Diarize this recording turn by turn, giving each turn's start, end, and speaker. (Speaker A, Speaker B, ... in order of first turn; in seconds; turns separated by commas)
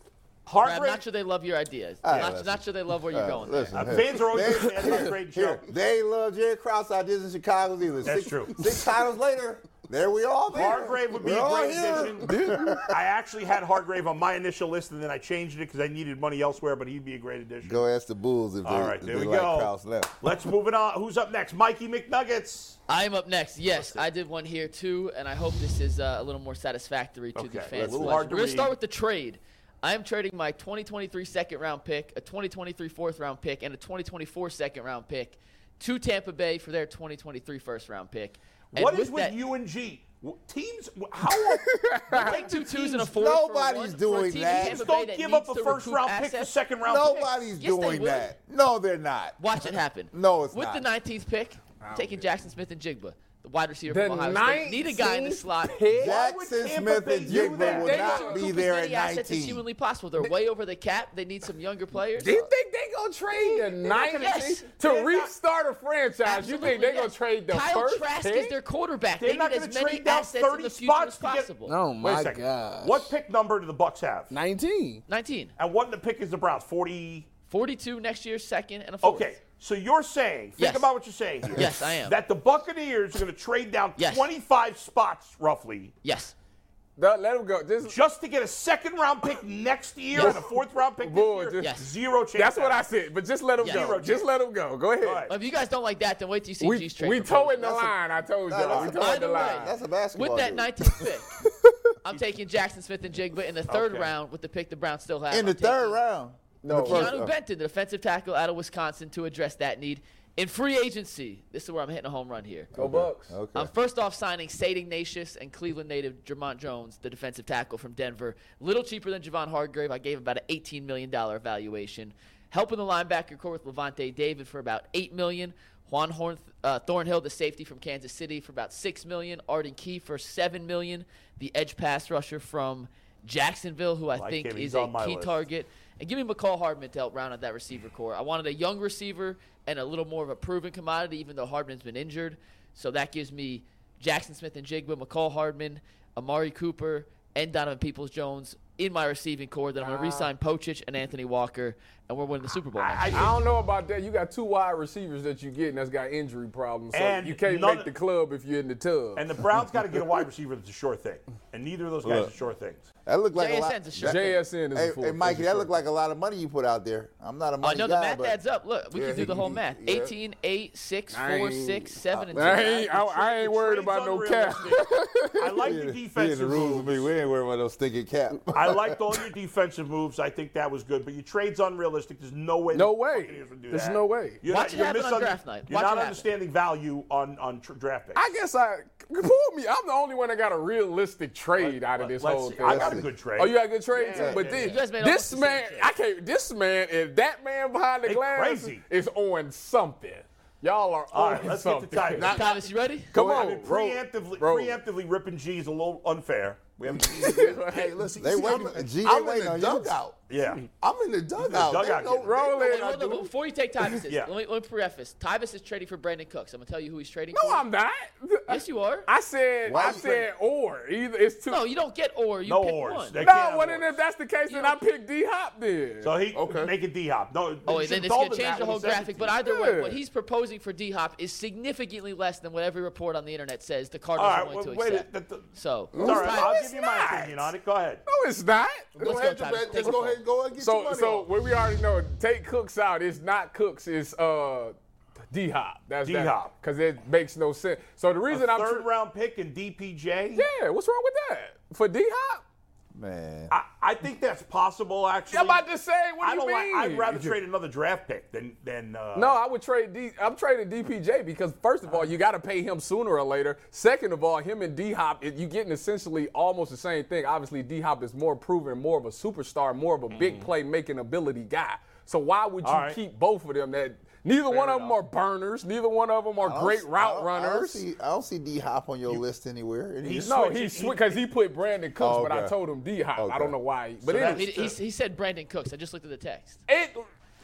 Speaker A: 0.5-1.0, Speaker B: 0.6-4.0, Speaker C: 2.0-12.8, Speaker A: 3.7-5.6, Speaker A: 8.0-8.6, Speaker A: 10.5-12.3, Speaker D: 12.2-12.9, Speaker A: 12.9-17.8, Speaker C: 17.6-20.2, Speaker A: 18.6-22.8, Speaker B: 22.9-39.4, Speaker A: 23.7-24.1, Speaker A: 27.4-28.7, Speaker C: 27.7-28.3, Speaker A: 38.7-43.0, Speaker D: 41.4-42.4, Speaker B: 42.1-46.5, Speaker C: 42.8-44.9, Speaker A: 44.5-47.3, Speaker C: 46.8-49.4, Speaker B: 47.5-48.3, Speaker B: 49.4-55.9, Speaker C: 50.1-50.9, Speaker D: 51.8-52.2, Speaker D: 53.9-56.3, Speaker C: 55.9-59.6, Speaker A: 56.1-58.2, Speaker D: 57.3-58.4, Speaker B: 57.9-62.5, Speaker D: 62.2-68.6, Speaker A: 63.8-65.3, Speaker B: 63.9-64.6, Speaker B: 66.2-71.8, Speaker A: 69.2-74.3, Speaker D: 71.7-73.1, Speaker D: 74.3-75.0, Speaker B: 75.1-75.5, Speaker A: 75.6-77.3, Speaker B: 77.5-79.4, Speaker A: 79.0-86.0, Speaker B: 80.6-80.9, Speaker B: 81.5-82.2, Speaker B: 84.0-84.3, Speaker B: 86.0-86.3, Speaker D: 87.0-88.0, Speaker A: 87.8-92.8, Speaker D: 90.1-91.8, Speaker B: 91.6-91.9, Speaker D: 92.4-95.3, Speaker A: 93.6-94.3, Speaker B: 93.6-93.9, Speaker A: 95.0-95.3, Speaker B: 95.3-98.0, Speaker D: 96.6-99.7, Speaker C: 98.5-100.7, Speaker B: 98.7-101.3, Speaker D: 101.4-101.8, Speaker B: 102.0-106.0, Speaker A: 103.7-104.1, Speaker C: 105.3-107.3, Speaker D: 106.6-107.2, Speaker B: 106.8-112.7, Speaker D: 112.8-113.4, Speaker C: 112.8-113.7, Speaker B: 113.5-153.3, Speaker A: 134.2-135.4, Speaker D: 149.8-150.3, Speaker A: 152.8-153.4, Speaker D: 153.1-159.3, Speaker A: 156.9-157.9, Speaker A: 159.2-162.9, Speaker C: 162.0-162.3, Speaker C: 163.1-168.4, Speaker B: 163.3-164.4, Speaker D: 164.0-165.7, Speaker B: 167.6-173.3, Speaker E: 168.9-170.1, Speaker D: 171.1-175.6, Speaker A: 173.2-177.1, Speaker C: 175.6-179.2, Speaker A: 178.5-188.3, Speaker D: 182.7-184.4, Speaker B: 184.5-186.3, Speaker D: 188.2-202.3, Speaker A: 191.6-194.8, Speaker C: 192.6-193.1, Speaker C: 194.1-194.6, Speaker B: 194.4-195.9, Speaker A: 198.1-198.8, Speaker A: 201.1-202.4, Speaker E: 202.2-202.6, Speaker B: 202.3-203.2, Speaker D: 203.1-204.8, Speaker A: 203.1-207.5, Speaker E: 206.9-210.2, Speaker D: 207.2-208.0, Speaker C: 208.2-210.0, Speaker A: 210.3-210.7, Speaker E: 210.7-213.3, Speaker A: 211.4-212.3, Speaker D: 212.2-213.0, Speaker B: 212.6-217.7, Speaker D: 217.3-221.6, Speaker B: 218.5-219.1, Speaker C: 219.7-220.3, Speaker B: 221.5-223.2, Speaker A: 222.4-224.0, Speaker D: 223.2-226.2, Speaker B: 224.5-224.8, Speaker A: 226.0-229.3, Speaker E: 226.3-226.7, Speaker B: 227.7-236.6, Speaker D: 229.4-230.0, Speaker A: 234.2-238.0, Speaker E: 235.9-236.4, Speaker D: 236.0-237.5, Speaker D: 238.1-240.0, Speaker E: 238.9-241.3, Speaker B: 239.0-240.2, Speaker D: 240.6-244.8, Speaker D: 245.3-248.9, Speaker A: 246.1-246.5, Speaker A: 248.3-250.4, Speaker D: 250.4-252.4, Speaker C: 252.9-253.5, Speaker A: 253.5-255.6, Speaker D: 255.3-257.4, Speaker A: 256.2-259.4, Speaker D: 259.1-277.8, Speaker A: 270.1-270.5, Speaker A: 272.6-273.0, Speaker A: 274.5-275.0, Speaker C: 276.4-280.4, Speaker A: 280.0-281.2, Speaker D: 280.2-284.5, Speaker C: 282.0-282.6, Speaker C: 283.2-283.6, Speaker A: 284.0-284.8, Speaker B: 284.1-286.6, Speaker D: 286.7-287.1